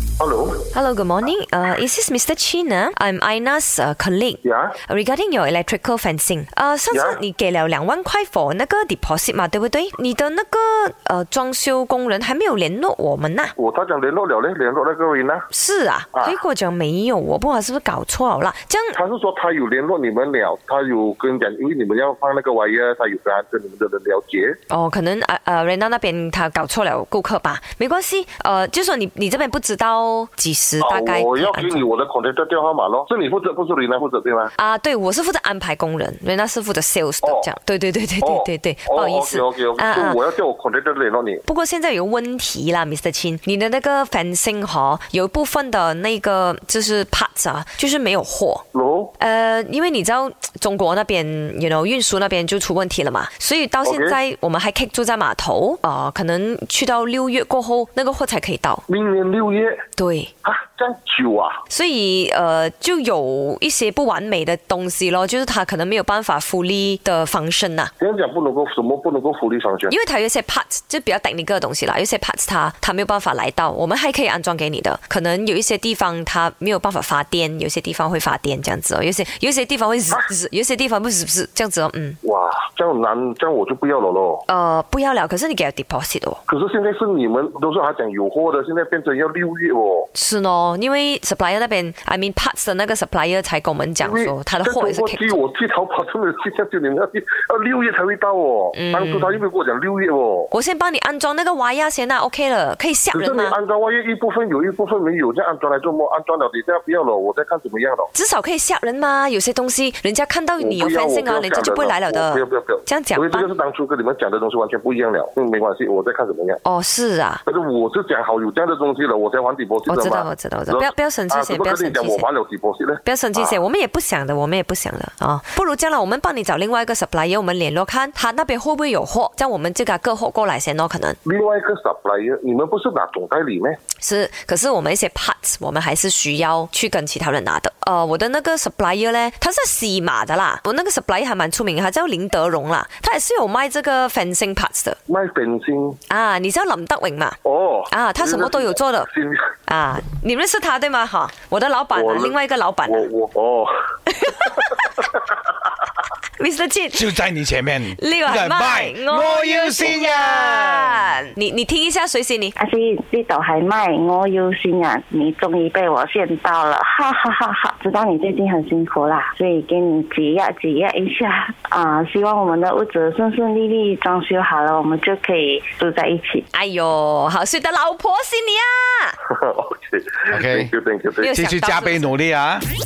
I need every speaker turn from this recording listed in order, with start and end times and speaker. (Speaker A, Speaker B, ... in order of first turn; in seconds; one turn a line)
Speaker A: 0.2-0.7
Speaker B: 0.7-13.5
Speaker A: 4.4-4.8
Speaker A: 6.9-7.2
Speaker A: 13.6-15.5
Speaker B: 15.5-19.0
Speaker A: 18.9-24.6
Speaker B: 24.7-31.8
Speaker A: 30.8-34.5
Speaker B: 34.6-40.2
Speaker A: 37.2-37.5
Speaker A: 38.2-41.4
Speaker B: 41.5-48.6
Speaker A: 48.7-49.1
Speaker B: 49.2-58.8
Speaker A: 53.9-54.2
Speaker A: 58.9-59.8
Speaker B: 60.0-60.3
Speaker A: 60.4-61.6
Speaker B: 61.7-67.9
Speaker A: 68.0-69.9
Speaker B: 69.9-82.2
Speaker A: 82.2-84.4
Speaker B: 84.5-86.4
Speaker A: 86.5-90.1
Speaker B: 90.2-95.4
Speaker A: 94.0-100.5
Speaker B: 98.7-99.4
Speaker B: 100.5-103.5
Speaker A: 103.1-108.1
Speaker B: 108.1-113.5
Speaker A: 110.6-116.6
Speaker B: 116.6-117.4
Speaker A: 117.5-123.6
Speaker B: 119.9-122.3
Speaker B: 123.0-131.2
Speaker A: 131.2-133.8
Speaker B: 134.0-145.0
Speaker A: 145.1-146.0
Speaker B: 146.1-147.4
Speaker A: 147.4-149.5
Speaker B: 147.9-149.1
Speaker B: 149.7-153.1
Speaker A: 151.9-152.4
Speaker A: 152.9-153.8
Speaker B: 154.3-154.7
Speaker B: 156.4-157.2
Speaker C: 156.9-161.1
Speaker B: 157.9-162.6
Speaker D: 162.6-176.4
Speaker B: 176.5-179.2
Speaker A: 179.3-181.3
Speaker C: 180.3-180.7
Speaker B: 181.2-182.2
Speaker C: 181.3-182.7